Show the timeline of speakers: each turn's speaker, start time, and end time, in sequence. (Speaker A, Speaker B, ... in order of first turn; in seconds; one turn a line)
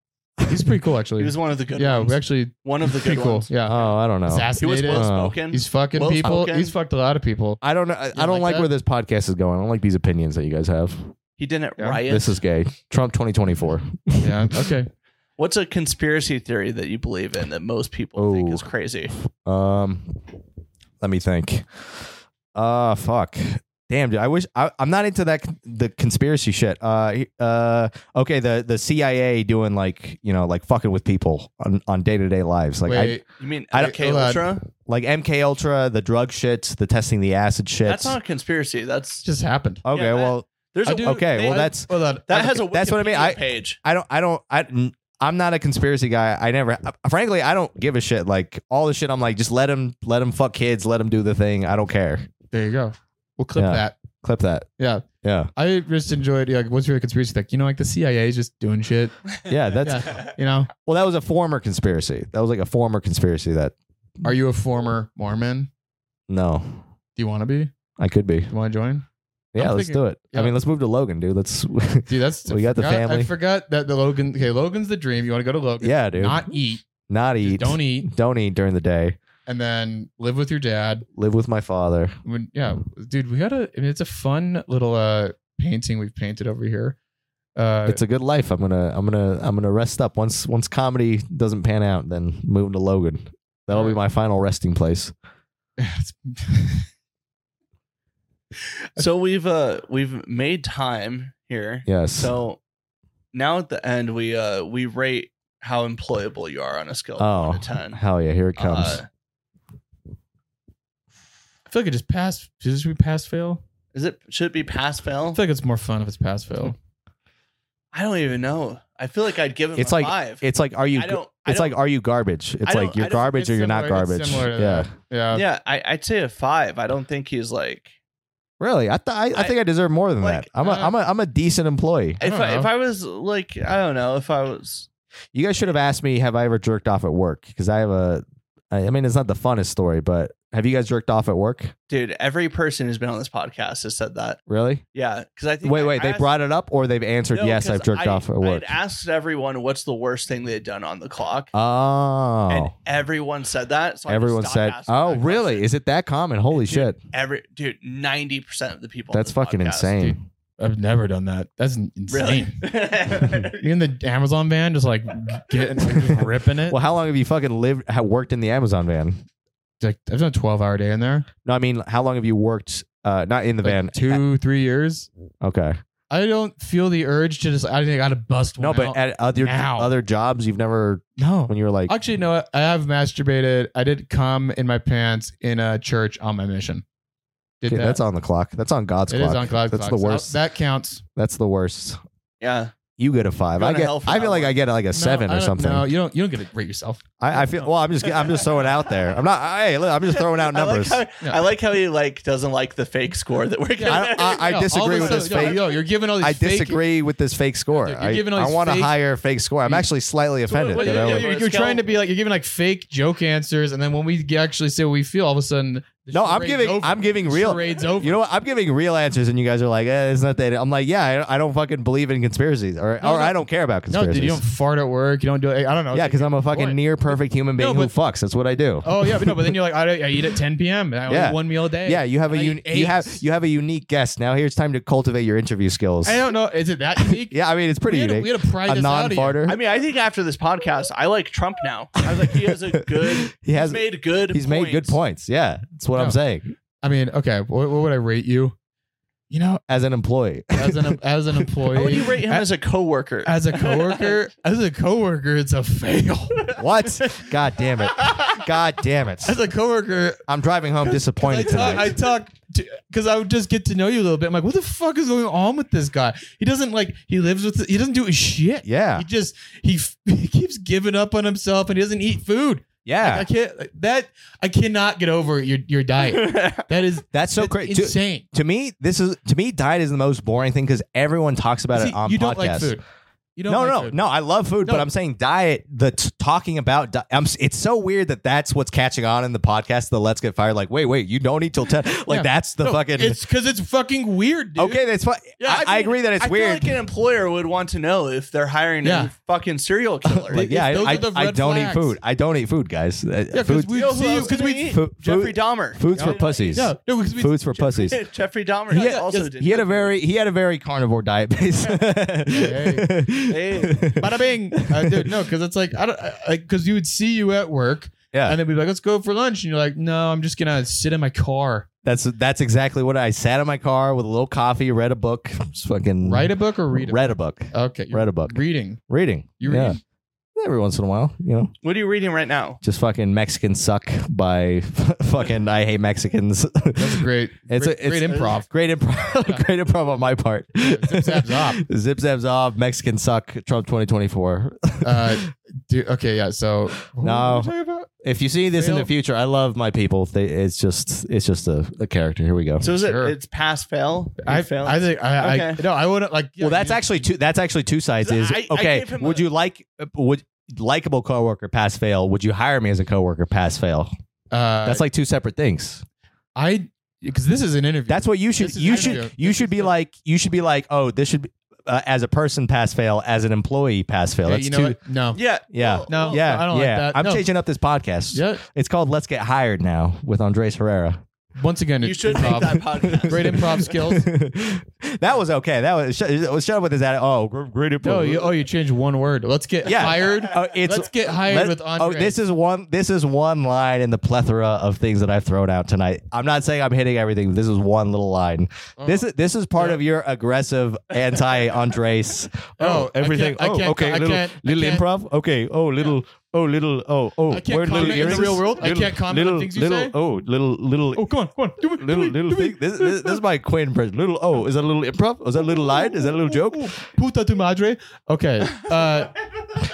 Speaker A: 0.5-7.6
Speaker B: 1.2-3.9
Speaker C: 3.6-5.4
Speaker B: 4.6-6.7
Speaker C: 7.6-11.1
Speaker A: 8.1-8.7
Speaker B: 11.4-12.4
Speaker C: 12.1-14.5
Speaker A: 14.2-14.9
Speaker B: 15.4-19.1
Speaker C: 18.1-20.2
Speaker C: 21.0-33.2
Speaker A: 32.8-34.4
Speaker B: 33.4-34.7
Speaker C: 34.8-38.2
Speaker B: 37.8-39.2
Speaker A: 39.2-39.8
Speaker C: 39.9-41.9
Speaker B: 39.9-43.8
Speaker A: 40.8-42.6
Speaker C: 42.7-52.3
Speaker A: 52.5-54.0
Speaker C: 53.5-54.7
Speaker A: 54.8-59.1
Speaker C: 55.2-55.5
Speaker C: 59.5-63.7
Speaker A: 59.8-60.7
Speaker A: 64.2-65.7
Speaker C: 66.3-66.8
Speaker A: 67.2-67.7
Speaker C: 68.0-68.5
Speaker A: 68.5-70.5
Speaker C: 69.5-73.3
Speaker A: 72.1-76.9
Speaker C: 75.8-76.5
Speaker C: 77.1-79.2
Speaker A: 77.4-78.1
Speaker A: 79.5-81.0
Speaker C: 81.1-82.2
Speaker A: 82.2-87.0
Speaker A: 87.5-88.0
Speaker C: 87.8-95.1
Speaker A: 93.7-94.0
Speaker A: 95.8-96.9
Speaker B: 99.0-102.6
Speaker C: 101.8-102.3
Speaker B: 103.3-108.0
Speaker C: 107.2-109.0
Speaker B: 108.6-109.1
Speaker A: 111.7-113.6
Speaker B: 113.9-115.4
Speaker A: 115.3-116.8
Speaker B: 117.9-121.8
Speaker C: 119.8-124.9
Speaker B: 122.6-123.0
Speaker A: 122.9-125.4
Speaker B: 125.3-127.9
Speaker C: 128.6-132.2
Speaker B: 130.2-130.5
Speaker A: 130.6-130.9
Speaker B: 132.2-134.9
Speaker A: 132.2-132.7
Speaker C: 135.3-141.7
Speaker B: 141.9-144.4
Speaker C: 144.5-144.8
Speaker B: 144.9-146.3
Speaker C: 145.6-148.7
Speaker B: 147.3-151.5
Speaker C: 151.5-152.7
Speaker B: 152.5-155.7
Speaker C: 154.1-157.0
Speaker B: 156.5-160.0
Speaker C: 159.1-160.2
Speaker A: 160.0-162.6
Speaker B: 162.1-163.6
Speaker A: 163.5-166.8
Speaker C: 166.7-169.2
Speaker A: 169.8-171.3
Speaker C: 171.4-174.2
Speaker A: 173.6-175.1
Speaker C: 175.4-175.8
Speaker A: 176.1-179.9
Speaker C: 178.6-181.9
Speaker A: 181.2-186.8
Speaker A: 187.6-188.0
Speaker C: 187.7-190.3
Speaker A: 189.1-191.0
Speaker C: 191.1-192.0
Speaker B: 192.4-192.7
Speaker C: 193.0-195.9
Speaker B: 193.6-194.5
Speaker A: 194.9-197.7
Speaker C: 197.2-201.0
Speaker B: 198.2-198.6
Speaker B: 200.1-205.7
Speaker A: 203.8-206.8
Speaker C: 203.8-205.7
Speaker C: 206.2-211.3
Speaker A: 207.8-208.9
Speaker B: 210.5-211.8
Speaker A: 210.7-218.2
Speaker C: 216.1-224.4
Speaker A: 223.0-226.8
Speaker C: 225.9-229.5
Speaker A: 227.6-227.9
Speaker A: 228.8-233.2
Speaker C: 231.1-236.2
Speaker A: 236.0-239.4
Speaker C: 237.0-239.6
Speaker B: 239.4-245.0
Speaker C: 243.2-246.5
Speaker A: 246.8-248.5
Speaker A: 249.3-249.6
Speaker C: 249.7-250.9
Speaker A: 250.6-252.5
Speaker B: 251.7-254.2
Speaker A: 253.2-257.3
Speaker C: 256.6-259.4
Speaker A: 258.0-258.3
Speaker A: 259.2-260.2
Speaker C: 260.3-261.9
Speaker A: 260.8-278.2
Speaker C: 268.6-269.1
Speaker C: 272.8-273.2
Speaker B: 276.0-276.7
Speaker C: 277.1-282.8
Speaker A: 281.7-282.8
Speaker A: 283.4-284.0
Speaker C: 283.5-293.2
Speaker A: 292.1-294.8
Speaker C: 294.6-296.8
Speaker B: 295.4-300.4
Speaker A: 295.4-295.7
Speaker A: 298.8-299.1
Speaker A: 300.1-302.0
Speaker C: 300.3-308.0
Speaker A: 303.3-304.7
Speaker B: 303.7-306.6
Speaker A: 305.9-308.0
Speaker B: 307.8-309.9
Speaker A: 308.7-309.3
Speaker C: 308.7-315.1
Speaker A: 312.3-312.9
Speaker B: 313.3-313.9
Speaker A: 313.9-321.7
Speaker C: 318.1-318.4
Speaker C: 321.8-329.8
Speaker A: 326.0-328.8
Speaker A: 329.4-329.8
Speaker C: 330.4-331.5
Speaker B: 331.6-332.6
Speaker C: 332.6-345.3
Speaker A: 336.8-338.5
Speaker A: 340.6-341.6
Speaker A: 344.8-347.9
Speaker C: 347.0-352.7
Speaker A: 348.5-348.9
Speaker B: 352.6-355.6
Speaker A: 352.6-353.1
Speaker A: 354.2-357.1
Speaker C: 356.4-363.9
Speaker B: 358.0-359.3
Speaker A: 364.3-364.8
Speaker C: 364.6-365.8
Speaker A: 366.3-369.7
Speaker C: 367.9-374.8
Speaker A: 374.2-375.2
Speaker B: 375.1-376.2
Speaker C: 375.5-381.0
Speaker A: 375.9-377.3
Speaker A: 378.1-378.4
Speaker A: 381.3-384.1
Speaker B: 381.8-383.6
Speaker C: 382.8-388.3
Speaker A: 387.8-392.2
Speaker C: 389.6-411.1
Speaker A: 398.8-399.8
Speaker A: 402.6-404.8
Speaker A: 407.3-409.9
Speaker A: 410.9-413.2
Speaker C: 411.8-416.8
Speaker A: 415.9-419.2